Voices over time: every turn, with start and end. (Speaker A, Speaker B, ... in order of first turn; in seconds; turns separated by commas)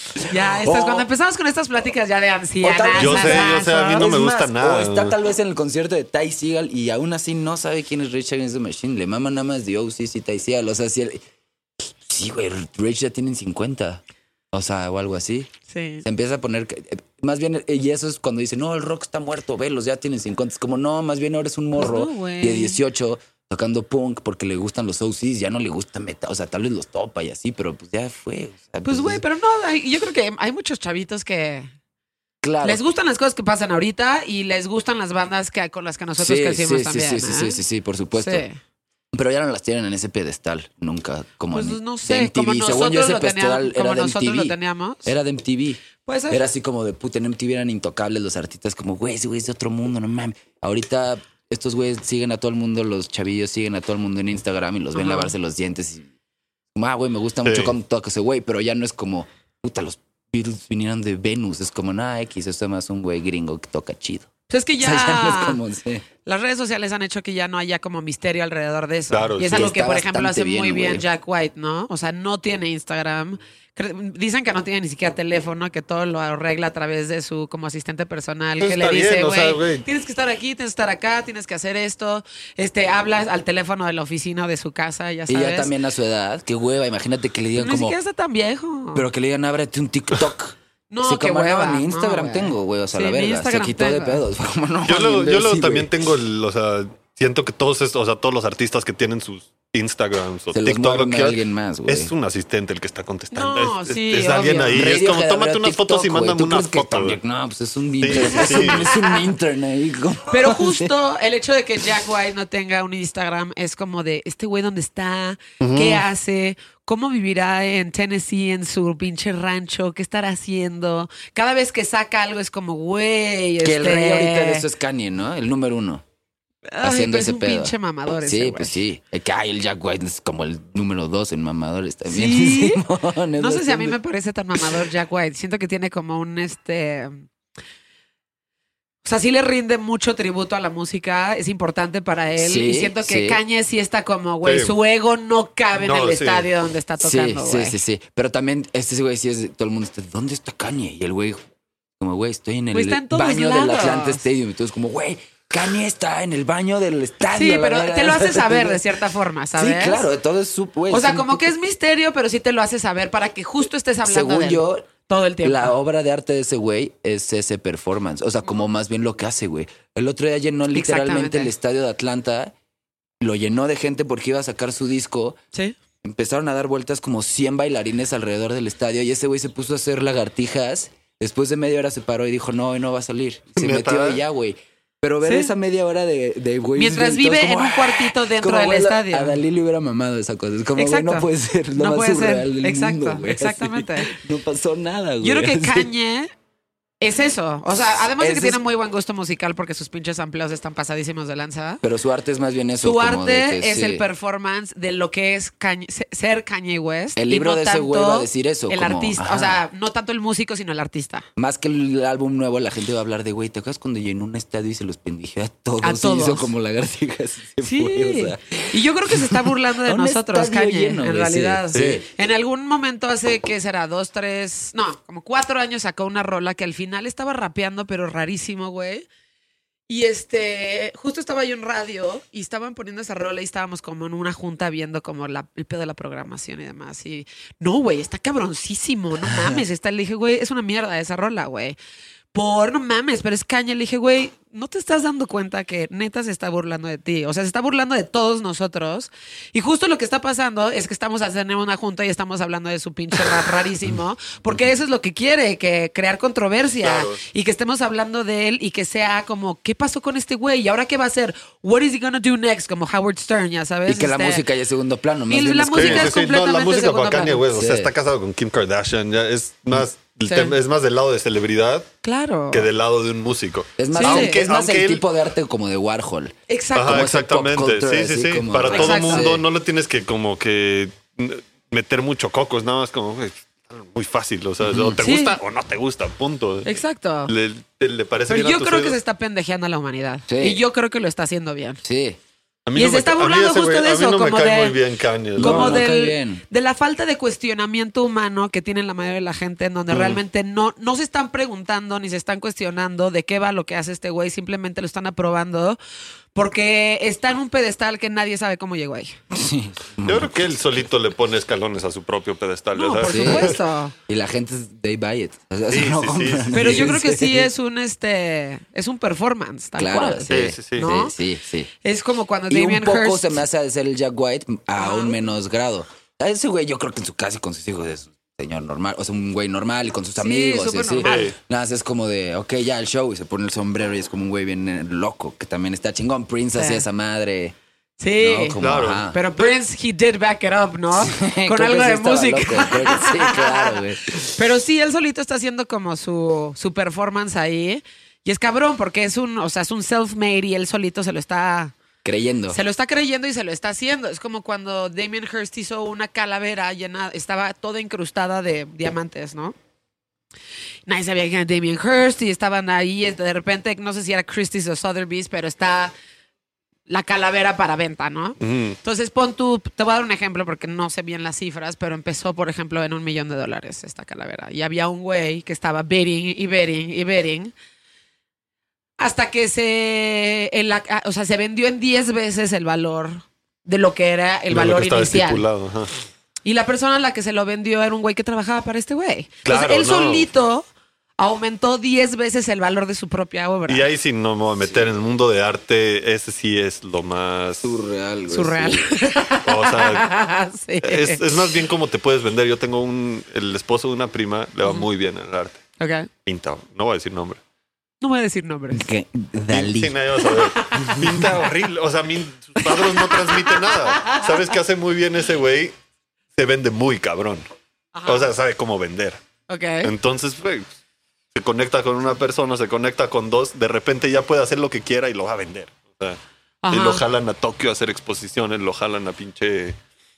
Speaker A: 0.2-4.1, Speaker B: 0.6-1.1, Speaker B: 2.6-11.2, Speaker C: 3.0-5.2, Speaker B: 11.8-15.5, Speaker A: 15.7-16.0, Speaker B: 16.0-29.2, Speaker A: 21.8-22.8, Speaker A: 28.8-31.7, Speaker B: 32.4-32.8, Speaker A: 32.6-37.6, Speaker B: 36.2-38.4, Speaker A: 38.1-38.6, Speaker B: 39.1-56.1, Speaker A: 41.5-45.1, Speaker A: 46.0-46.4, Speaker A: 55.0-55.3, Speaker B: 56.7-66.0, Speaker C: 57.4-57.7, Speaker A: 64.5-65.6, Speaker A: 66.2-85.7, Speaker C: 69.1-69.7, Speaker B: 69.5-71.0, Speaker C: 78.6-79.8, Speaker B: 85.3-88.0, Speaker A: 87.6-89.0, Speaker B: 88.9-95.9, Speaker A: 90.9-94.2, Speaker C: 94.8-107.2, Speaker B: 100.5-102.1, Speaker A: 103.3-105.0, Speaker B: 104.7-110.9, Speaker C: 108.0-108.9, Speaker A: 108.1-109.3, Speaker A: 110.3-124.6, Speaker C: 115.6-116.0, Speaker B: 123.6-126.0, Speaker A: 126.7-128.8, Speaker B: 126.8-133.9, Speaker A: 132.1-132.8, Speaker A: 133.4-137.3, Speaker A: 139.0-147.8, Speaker B: 142.4-143.4, Speaker C: 144.4-144.8, Speaker C: 145.8-146.5, Speaker B: 147.0-151.4, Speaker B: 152.0-158.8, Speaker A: 152.7-154.3, Speaker A: 157.3-160.1, Speaker B: 159.5-161.5, Speaker A: 160.9-165.7, Speaker B: 164.0-164.9, Speaker B: 165.4-172.5, Speaker A: 170.7-171.5, Speaker B: 173.2-175.4, Speaker B: 176.0-195.9, Speaker C: 183.6-184.2, Speaker A: 185.2-185.5, Speaker A: 186.8-189.4, Speaker A: 190.8-194.1, Speaker A: 195.2-196.3, Speaker A: 197.0-201.8, Speaker B: 198.2-198.6, Speaker B: 201.8-204.0, Speaker A: 202.8-211.3, Speaker B: 207.2-209.6, Speaker B: 211.4-222.0, Speaker A: 215.8-216.5, Speaker A: 217.6-229.1, Speaker C: 221.7-222.0, Speaker A: 229.9-241.8, Speaker B: 239.3-239.6, Speaker A: 242.3-264.4, Speaker C: 256.8-257.2, Speaker B: 263.9-266.2, Speaker A: 265.3-267.4, Speaker C: 265.7-271.9, Speaker B: 267.5-267.9, Speaker A: 270.3-270.6, Speaker A: 272.0-272.7, Speaker C: 272.5-275.0, Speaker B: 273.8-279.4, Speaker A: 273.9-274.4, Speaker A: 276.5-277.1, Speaker C: 276.7-289.0, Speaker A: 278.7-279.3, Speaker B: 284.7-285.0, Speaker A: 285.0-285.4, Speaker A: 286.6-287.3, Speaker A: 288.3-291.8, Speaker B: 290.3-290.6, Speaker B: 291.8-292.2, Speaker C: 292.6-295.8, Speaker A: 292.7-294.8, Speaker B: 295.4-296.4, Speaker A: 295.4-305.8, Speaker C: 299.9-300.2, Speaker A: 306.3-309.2, Speaker B: 309.3-310.4, Speaker C: 310.0-313.5, Speaker A: 312.7-313.9, Speaker B: 313.1-313.5, Speaker B: 314.1-317.5, Speaker C: 315.7-316.9, Speaker A: 316.5-321.1, Speaker B: 319.8-321.7, Speaker C: 320.3-321.0, Speaker A: 321.8-323.4, Speaker B: 322.5-337.5, Speaker A: 324.8-325.2, Speaker A: 330.2-331.3, Speaker C: 331.0-331.3, Speaker A: 336.5-336.8, Speaker A: 338.0-338.6, Speaker B: 338.2-339.2, Speaker C: 338.6-339.1, Speaker A: 339.1-343.8, Speaker B: 341.0-344.4, Speaker A: 344.3-351.7, Speaker B: 352.0-352.6, Speaker A: 352.5-359.5, Speaker A: 360.9-365.9, Speaker A: 366.9-377.5, Speaker C: 368.4-368.8, Speaker A: 379.0-385.4, Speaker C: 384.5-385.9, Speaker A: 386.4-390.6, Speaker C: 389.4-390.3, Speaker A: 391.2-393.9, Speaker C: 393.7-397.7, Speaker B: 397.6-398.9, Speaker A: 398.3-401.5, Speaker C: 399.4-400.1, Speaker C: 400.8-405.6, Speaker A: 405.8-406.1, Speaker C: 406.2-407.4, Speaker A: 408.0-408.9, Speaker B: 408.7-409.9, Speaker C: 409.5-415.7, Speaker A: 410.2-411.3, Speaker B: 410.8-411.3, Speaker A: 412.6-414.2, Speaker C: 416.3-417.4, Speaker A: 417.9-418.3, Speaker C: 418.1-419.2, Speaker A: 419.5-419.9, Speaker C: 419.8-420.7, Speaker C: 421.3-426.2, Speaker A: 426.6-427.0, Speaker C: 426.7-429.8